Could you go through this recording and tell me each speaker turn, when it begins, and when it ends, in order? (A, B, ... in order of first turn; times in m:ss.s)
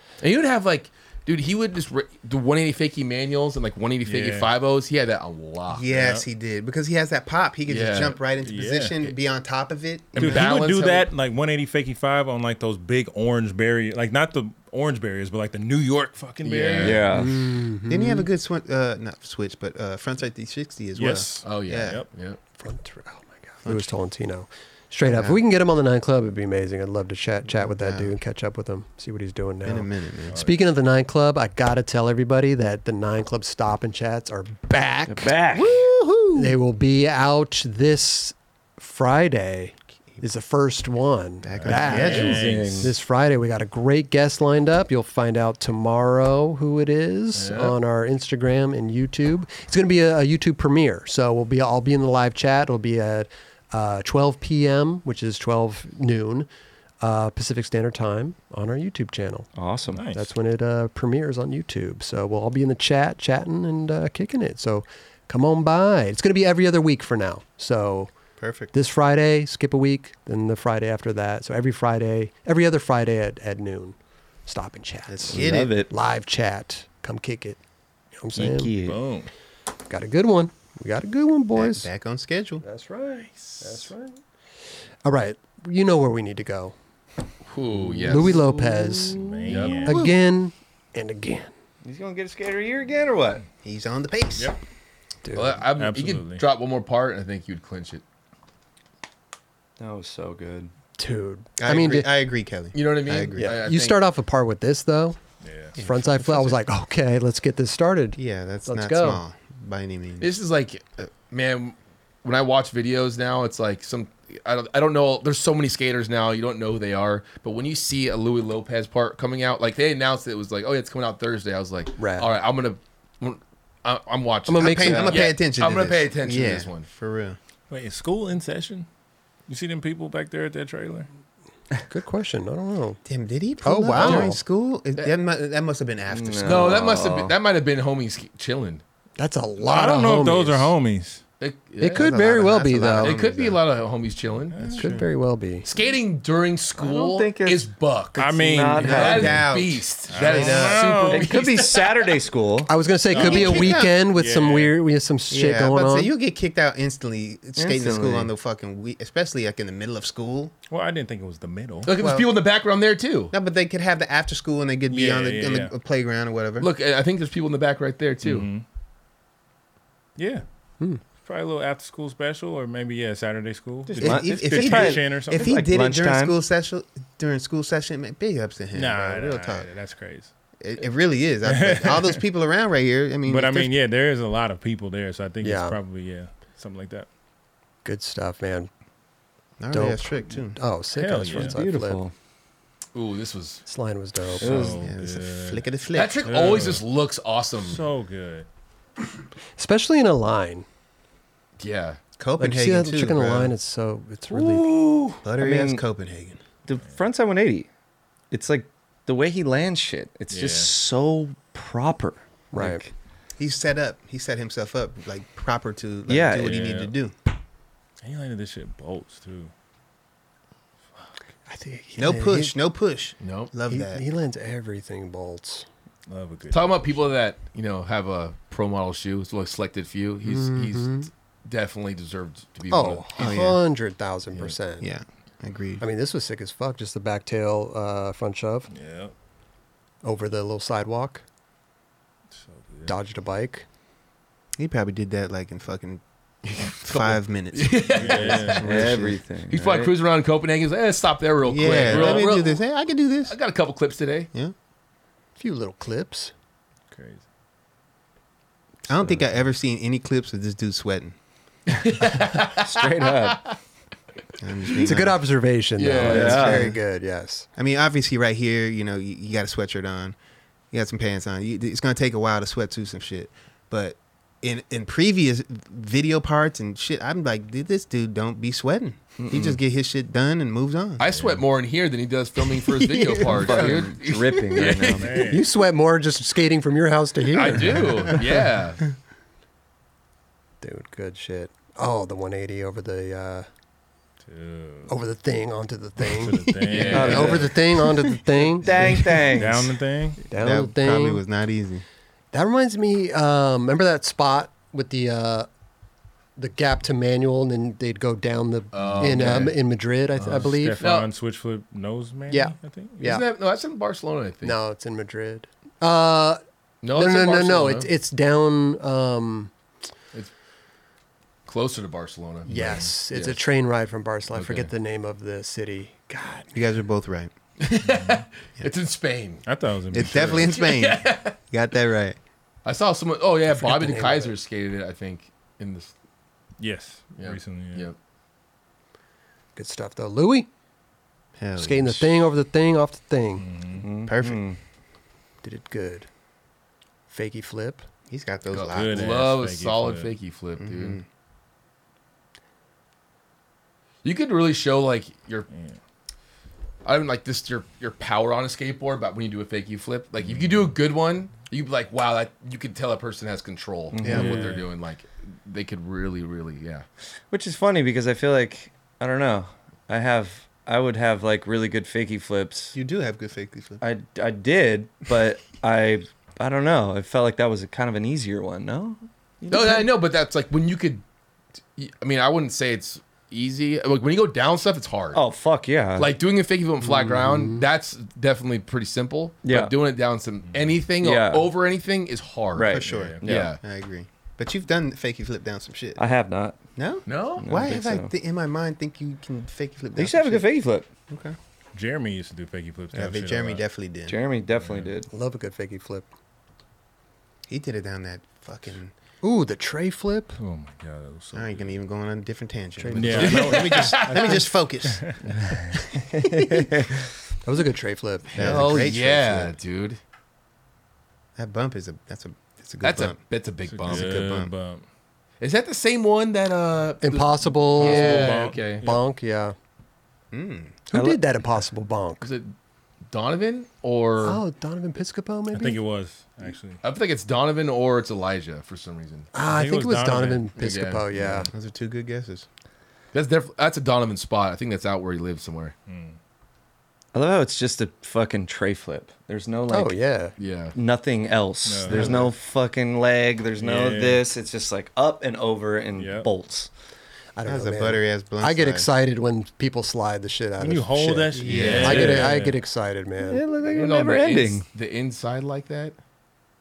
0:00.2-0:05.8 A
0:04.0-0:04.5 B
0:05.7-0:10.4 C
0:05.9-0:06.2 B
0:07.7-0:08.2 A
0:08.4-0:09.0 B
0:10.1-0:11.1 A
0:10.2-0:17.0 B
0:16.4-0:17.0 A
0:16.8-0:17.4 D
0:17.1-0:18.3 E
0:17.9-0:22.0 C
0:21.0-0:22.1 B
0:21.4-0:22.4 A
0:22.6-0:35.4 E
0:23.6-0:23.9 C
0:25.0-0:25.4 C
0:27.6-0:28.1 C
0:29.6-0:30.4 C
0:30.3-0:30.6 B
0:35.1-0:35.9 D
0:35.6-0:36.1 C
0:36.3-0:56.5 E
0:41.4-0:42.4 C
0:41.5-0:42.9 B
0:41.9-0:42.9 D
0:47.3-0:47.8 A
0:57.0-0:59.5 E
0:59.5-1:00.0 D
0:59.9-1:00.3 B
1:00.1-1:08.1 E
1:08.4-1:08.7 C
1:08.7-1:14.0 E
1:14.5-1:17.6 E
1:15.1-1:15.8 C
1:15.3-1:15.9 D
1:18.2-1:18.7 E
1:18.3-1:19.0 D
1:18.8-1:19.3 B
1:19.9-1:21.9 E
1:21.6-1:22.6 C
1:22.6-1:24.2 E
1:25.0-1:26.7 E
1:27.5-1:28.4 A
1:28.0-1:31.5 E
1:29.2-1:30.0 B
1:29.5-1:29.9 A
1:29.8-1:30.1 C
1:31.8-1:33.4 D
1:33.6-1:34.5 C
1:35.2-1:35.6 E
1:35.3-1:38.0 A
1:35.8-1:36.4 B
1:39.8-1:40.7 D
1:41.0-1:42.1 E
1:41.6-1:43.6 C
1:42.7-1:44.0 A
1:43.4-1:45.2 E
1:45.4-1:45.8 B
1:45.8-1:46.5 C
1:45.8-1:49.2 E
1:48.2-1:50.4 C
1:50.2-2:06.9 A
2:02.0-2:02.3 E
2:04.5-2:05.2 E
2:04.6-2:07.4 C
2:07.7-2:08.9 B
2:09.5-2:11.1 B
2:11.9-2:13.0 E
2:13.0-2:16.8 C
2:13.6-2:14.4 E
2:16.1-2:17.3 D
2:16.4-2:18.8 A
2:19.2-2:20.7 E
2:19.6-2:21.2 B
2:21.4-2:22.0 A
2:21.8-2:23.2 E
2:22.0-2:23.6 C
2:23.0-2:24.6 A
2:24.5-2:24.9 B
2:24.6-2:25.0 C
2:24.8-2:25.6 E
2:25.6-2:32.2 A
2:26.8-2:29.6 D
2:28.2-2:29.4 B
2:28.8-2:30.9 C
2:30.1-2:31.3 B
2:31.1-2:32.7 D
2:32.7-2:36.1 E
2:33.1-2:34.7 B
2:33.1-2:34.0 C
2:35.3-2:40.5 C
2:37.6-2:38.3 D
2:40.7-2:41.9 B
2:41.8-2:43.3 A
2:42.0-2:42.3 C
2:43.3-2:46.7 C
2:44.9-2:45.7 B
2:46.6-2:48.5 A
2:48.2-2:48.6 B
2:50.2-2:50.4 B
2:51.2-2:55.5 B
2:53.9-2:59.7 C
2:54.0-2:56.4 D
2:58.7-3:00.3 B
3:00.6-3:03.7 C
3:01.4-3:02.2 B
3:03.3-3:07.1 B
3:05.4-3:05.8 E
3:07.8-3:08.7 E
3:09.6-3:10.6 C
3:09.7-3:12.0 E
3:11.0-3:11.6 B
3:11.3-3:12.1 D
3:12.9-3:13.6 A
3:13.6-3:14.4 E
3:14.4-3:14.9 D
3:14.4-3:15.6 B
3:14.6-3:16.6 C
3:15.9-3:17.8 A
3:16.2-3:16.8 B
3:17.6-3:18.4 B
3:19.6-3:20.6 E
3:21.6-3:22.0 A
3:22.2-3:23.5 C
3:22.4-3:24.7 E
3:24.3-3:25.8 D
3:25.2-3:26.4 C
3:26.6-3:27.7 D
3:28.3-3:32.9 D
3:30.3-3:30.7 B
3:32.5-3:32.8 E
3:33.4-3:37.1 C
3:36.1-3:36.7 D
3:36.4-3:36.9 B
3:38.0-3:39.5 B
3:41.5-3:42.6 E
3:42.0-3:44.0 C
3:43.2-3:43.5 A
3:43.7-3:45.6 E
3:46.1-3:47.1 B
3:46.5-3:53.4 A
3:50.2-3:51.1 E
3:52.7-3:54.9 E
3:53.2-3:53.6 C
3:54.8-3:55.8 C
3:55.8-3:58.7 E
3:58.7-3:59.1 B
4:00.0-4:01.2 E
4:02.4-4:02.9 B
4:02.9-4:03.6 E
4:04.6-4:06.0 C
4:06.4-4:08.6 A
4:06.6-4:09.2 C
4:07.9-4:08.6 B
4:08.6-4:09.9 D
4:09.5-4:12.6 A
4:11.4-4:13.4 C
4:11.7-4:12.2 B
4:13.3-4:14.3 A
4:15.4-4:16.3 E
4:16.9-4:17.2 B
4:18.9-4:21.1 C
4:21.7-4:23.5 A
4:22.6-4:23.4 D
4:24.4-4:25.2 C
4:24.8-4:27.5 E
4:25.8-4:26.5 A
4:26.1-4:26.7 D
4:26.1-4:26.8 C
4:27.6-4:30.2 C
4:30.7-4:41.0 C
4:39.2-4:39.6 D
4:41.0-4:45.2 A
4:41.1-4:41.4 B
4:42.4-4:43.8 C
4:43.3-4:45.3 D
4:45.0-4:45.4 B
4:45.2-4:48.1 E
4:47.3-4:48.8 A
4:50.6-4:53.5 E
4:54.3-4:54.9 B
4:54.9-4:59.2 E
4:56.0-4:57.5 B
4:56.5-4:56.7 C
4:56.7-4:57.5 A
4:56.9-4:57.5 D
4:57.8-4:58.2 C
4:58.6-4:59.7 D
4:59.3-5:00.2 B
5:00.3-5:01.2 E
5:00.3-5:01.8 C
5:02.3-5:05.5 E
5:06.4-5:10.9 E
5:08.7-5:09.6 A
5:10.2-5:11.1 A
5:10.2-5:13.0 B
5:12.3-5:13.2 E
5:13.0-5:14.6 A
5:14.4-5:16.4 E
5:16.8-5:17.9 A
5:16.9-5:19.5 E
5:21.4-5:23.4 A
5:22.4-5:26.5 E
5:24.3-5:24.7 A
5:26.5-5:27.3 C
5:27.6-5:29.4 A
5:27.8-5:28.2 B
5:29.4-5:30.5 B
5:29.9-5:32.2 C
5:30.0-5:31.4 A
5:32.6-5:35.9 A
5:33.5-5:34.3 E
5:36.6-5:37.9 B
5:37.2-5:38.0 A
5:39.6-5:40.5 E
5:41.4-5:42.2 C
5:41.6-5:43.4 E
5:43.4-5:43.8 B
5:43.8-5:44.6 D
5:44.1-5:44.4 C
5:45.4-5:46.1 E
5:47.1-5:47.8 E
5:48.1-5:49.1 C
5:48.5-5:51.0 A
5:48.7-5:50.1 B
5:50.6-5:51.0 C
5:54.0-5:55.5 A
5:55.5-5:55.8 B
5:56.8-6:06.8 A
6:03.9-6:04.4 D
6:04.0-6:04.6 B
6:07.3-6:12.8 D
6:12.7-6:13.8 C
6:13.8-6:19.9 D
6:19.5-6:21.0 A
6:21.7-6:25.2 A
6:25.1-6:26.2 D
6:26.0-6:33.6 A
6:27.0-6:27.6 E
6:29.4-6:29.7 D
6:30.5-6:30.8 B
6:31.0-6:31.5 D
6:32.6-6:33.5 D
6:32.6-6:36.0 C
6:32.8-6:33.2 B
6:36.0-6:36.6 D
6:36.8-6:40.5 C
6:37.1-6:37.5 A
6:37.4-6:38.1 D
6:40.0-6:40.8 D
6:41.1-6:41.4 C
6:41.7-6:43.6 B
6:42.9-6:44.2 C
6:44.0-6:45.1 D
6:44.6-6:44.9 B
6:45.1-6:46.1 E
6:47.5-6:48.9 C
6:49.2-6:50.4 E
6:50.4-6:51.7 B
6:51.3-6:55.2 C
6:52.8-6:53.6 E
6:52.9-6:55.2 B
6:53.0-6:54.4 A
6:56.1-6:56.6 C
6:56.1-6:57.0 D
6:57.4-6:58.8 E
6:58.3-6:59.6 C
6:58.3-7:00.0 A
7:01.4-7:03.2 C
7:02.8-7:04.3 A
7:03.7-7:04.8 B
7:03.9-7:04.5 C
7:05.4-7:08.9 A
7:07.0-7:09.5 E
7:07.8-7:09.0 B
7:10.3-7:10.8 C
7:10.9-7:12.3 E
7:10.9-7:11.2 D
7:12.2-7:12.5 A
7:13.1-7:14.4 A
7:14.2-7:15.8 E
7:15.5-7:16.8 B
7:16.8-7:19.3 A
7:19.3-7:21.5 E
7:19.5-7:20.4 B
7:20.6-7:21.5 A
7:21.5-7:22.4 C
7:23.1-7:25.7 A
7:25.9-7:26.2 B
7:27.1-7:29.9 D
7:29.7-7:30.3 E
7:30.4-7:30.8 A
7:30.7-7:36.7 D
7:31.6-7:32.1 B
7:31.9-7:32.3 A
7:33.6-7:34.2 B
7:36.0-7:36.3 B
7:37.4-7:43.4 E
7:37.4-7:38.9 C
7:40.6-7:42.6 B
7:41.3-7:42.2 C
7:41.5-7:42.3 A
7:43.3-7:44.6 D
7:43.7-7:46.0 A